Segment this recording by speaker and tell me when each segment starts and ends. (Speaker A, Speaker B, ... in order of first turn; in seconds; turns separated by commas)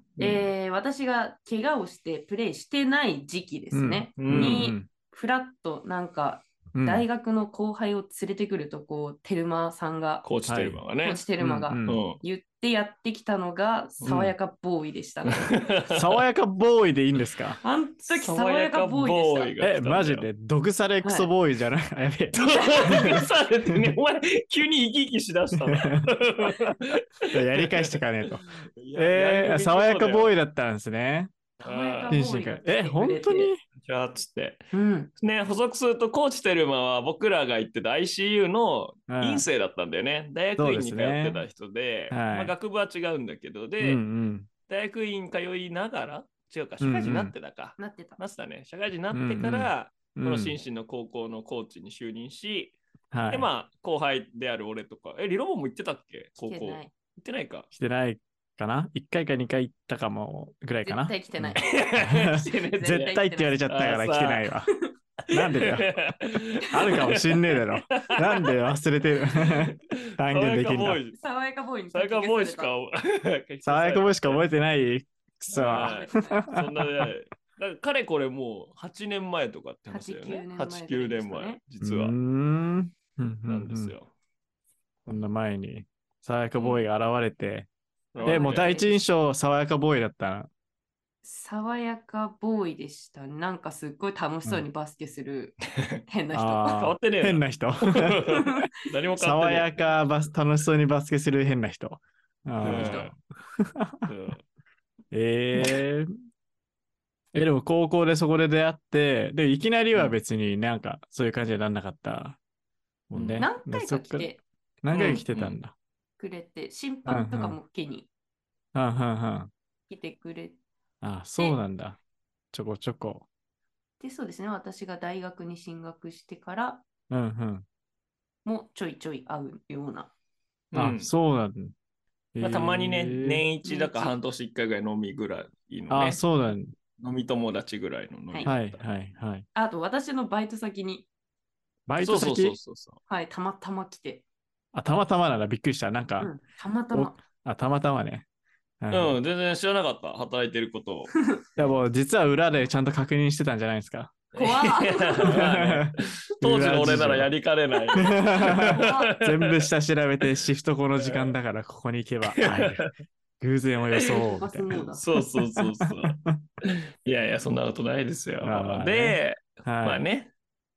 Speaker A: 0.2-0.5, Speaker B: 0.2-10.2, Speaker C: 3.7-4.9, Speaker A: 4.2-4.7, Speaker C: 6.7-7.0, Speaker A: 10.2-11.2, Speaker C: 10.5-10.8, Speaker B: 11.0-15.6, Speaker C: 11.4-12.0, Speaker A: 11.8-12.2, Speaker C: 14.1-14.3, Speaker A: 15.3-16.1, Speaker C: 15.9-17.6, Speaker B: 17.6-19.5, Speaker A: 18.1-20.3, Speaker C: 19.6-23.9, Speaker B: 21.0-21.3, Speaker A: 22.3-30.3, Speaker B: 22.6-23.2, Speaker C: 25.6-26.0, Speaker C: 27.3-31.3, Speaker B: 31.6-33.5, Speaker A: 31.6-32.1, Speaker C: 32.1-33.6, Speaker A: 33.8-34.6, Speaker B: 34.7-35.1, Speaker A: 35.2-44.0, Speaker C: 39.1-39.4, Speaker C: 40.6-41.4, Speaker C: 42.1-42.5, Speaker C: 43.8-44.5, Speaker A: 44.7-52.8, Speaker C: 46.8-47.3, Speaker B: 47.8-48.2, Speaker C: 49.1-50.6, Speaker C: 53.1-53.5, Speaker A: 53.3-57.7, Speaker B: 56.5-56.9, Speaker C: 57.7-64.7, Speaker B: 60.8-63.6, Speaker A: 61.6-63.1, Speaker A: 63.7-64.4, Speaker A: 65.3-67.3, Speaker C: 65.3-66.0, Speaker C: 66.7-71.0, Speaker A: 67.9-68.5, Speaker A: 69.5-71.2, Speaker B: 71.1-72.7, Speaker A: 71.9-74.4, Speaker C: 73.6-77.1, Speaker A: 75.5-82.2, Speaker B: 75.8-76.5, Speaker B: 79.9-81.6, Speaker C: 81.8-83.9, Speaker A: 83.5-84.1, Speaker C: 85.1-87.7, Speaker A: 86.5-86.9, Speaker A: 88.1-88.8, Speaker B: 88.2-89.0, Speaker C: 88.2-90.5, Speaker B: 91.2-97.0, Speaker C: 96.3-98.5, Speaker A: 96.8-99.8, Speaker B: 98.3-98.7, Speaker C: 99.2-104.1, Speaker A: 102.6-103.1, Speaker B: 102.6-103.1, Speaker A: 104.1-104.4, Speaker C: 105.1-106.1, Speaker A: 105.5-105.8, Speaker C: 107.3-112.4, Speaker C: 113.1-115.7, Speaker A: 113.1-113.5, Speaker B: 113.4-114.4, Speaker A: 114.9-115.6, Speaker B: 116.2-118.1, Speaker C: 117.0-117.6, Speaker C: 118.7-119.5, Speaker B: 119.9-120.6, Speaker C: 121.0-122.0, Speaker C: 122.5-123.3, Speaker B: 124.0-126.8, Speaker C: 127.1-127.7, Speaker B: 128.4-130.1, Speaker A: 130.7-131.1, Speaker C: 130.7-131.7, Speaker C: 132.3-133.4, Speaker A: 132.4-136.2, Speaker B: 133.6-134.2, Speaker C: 135.9-136.7, Speaker A: 137.0-138.7, Speaker C: 138.4-139.4, Speaker B: 139.5-141.1, Speaker C: 141.9-142.6, Speaker A: 142.0-143.0, Speaker B: 143.1-144.2, Speaker C: 144.7-146.3, Speaker B: 146.2-147.2, Speaker C: 146.9-148.2, Speaker C: 148.8-149.2, Speaker A: 148.9-151.1, Speaker C: 151.6-154.2, Speaker A: 154.3-159.7, Speaker B: 154.3-155.5, Speaker C: 155.3-157.3, Speaker C: 157.9-162.9, Speaker B: 158.6-159.1, Speaker A: 160.9-161.4, Speaker A: 162.3-162.9, Speaker C: 163.4-166.4, Speaker A: 164.0-170.3, Speaker B: 164.0-165.0, Speaker C: 168.4-170.0